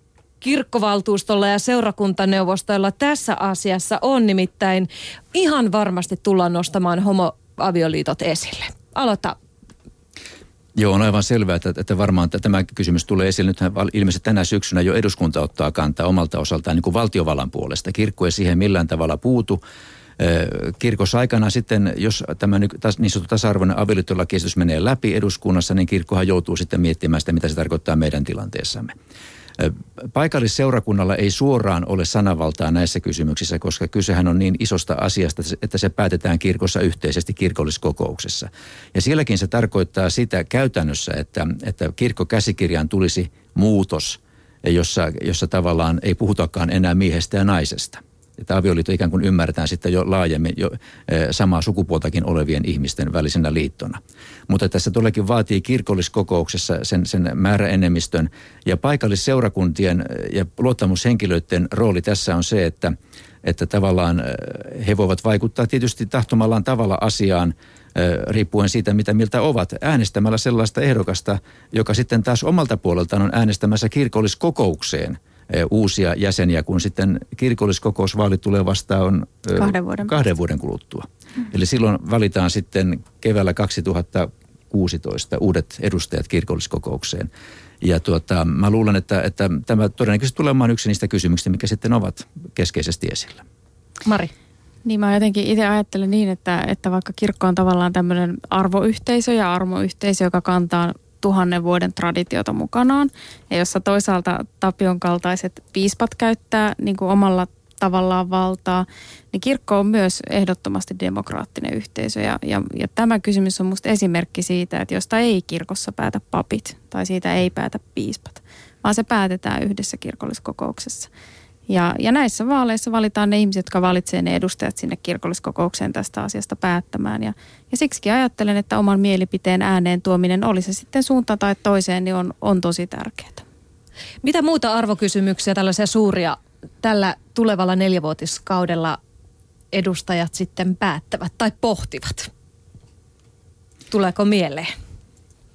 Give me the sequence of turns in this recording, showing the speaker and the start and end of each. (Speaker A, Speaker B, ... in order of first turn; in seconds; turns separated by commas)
Speaker A: 0.4-9.3, Speaker B: 10.8-19.6, Speaker B: 20.2-28.9, Speaker B: 29.6-87.3, Speaker C: 79.6-80.1, Speaker B: 87.8-93.4, Speaker A: 94.0-94.3, Speaker C: 94.8-121.1, Speaker C: 121.7-133.4, Speaker A: 134.2-139.0, Speaker A: 139.7-142.3, Speaker A: 143.9-144.7